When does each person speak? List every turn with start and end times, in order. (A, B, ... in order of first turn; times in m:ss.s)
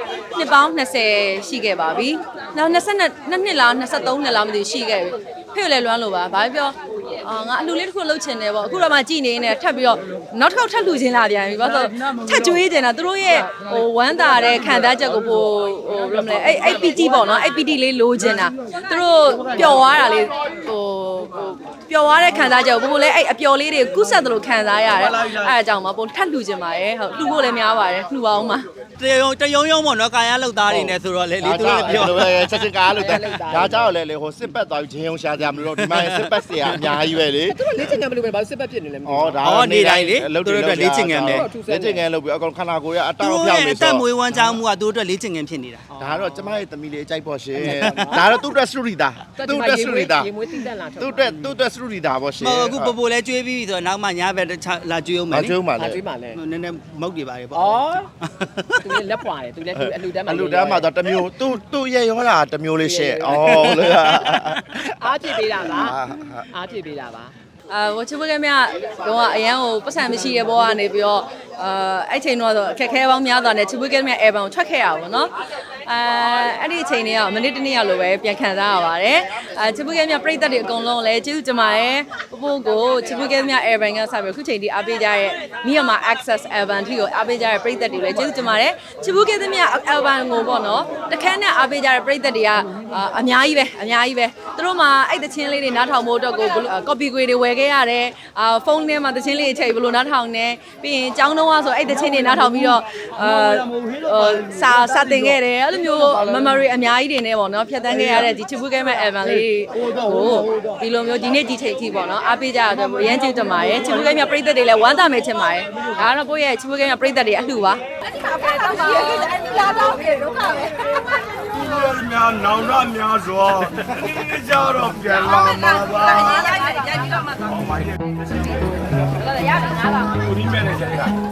0:00.3-0:28.7 A
0:25.0-0:25.5 B
0:29.0-0:32.6 B
0:30.7-0:37.8 C
0:31.7-0:32.1 D
0:32.9-0:33.9 D
0:35.8-0:36.7 B
0:37.5-0:39.4 D
0:39.0-0:44.6 C
0:39.4-0:41.5 B
0:41.2-0:42.0 D
0:43.2-0:45.9 B
0:45.9-0:46.6 D
0:46.0-0:50.3 C
0:47.6-0:48.2 B
0:47.7-0:48.2 D
0:49.4-0:51.5 D
0:51.0-0:53.0 C
0:52.4-0:55.6 B
0:55.3-0:56.0 C
0:55.8-0:56.4 D
0:56.3-0:59.0 B
0:57.5-0:58.1 D
0:58.8-1:00.9 D
0:59.8-1:06.5 C
1:02.8-1:04.2 D
1:04.8-1:07.3 D
1:07.7-1:15.3 A
1:15.8-2:00.7 A
2:01.7-2:06.3 E
2:09.4-2:10.2 A
2:10.6-2:11.0 E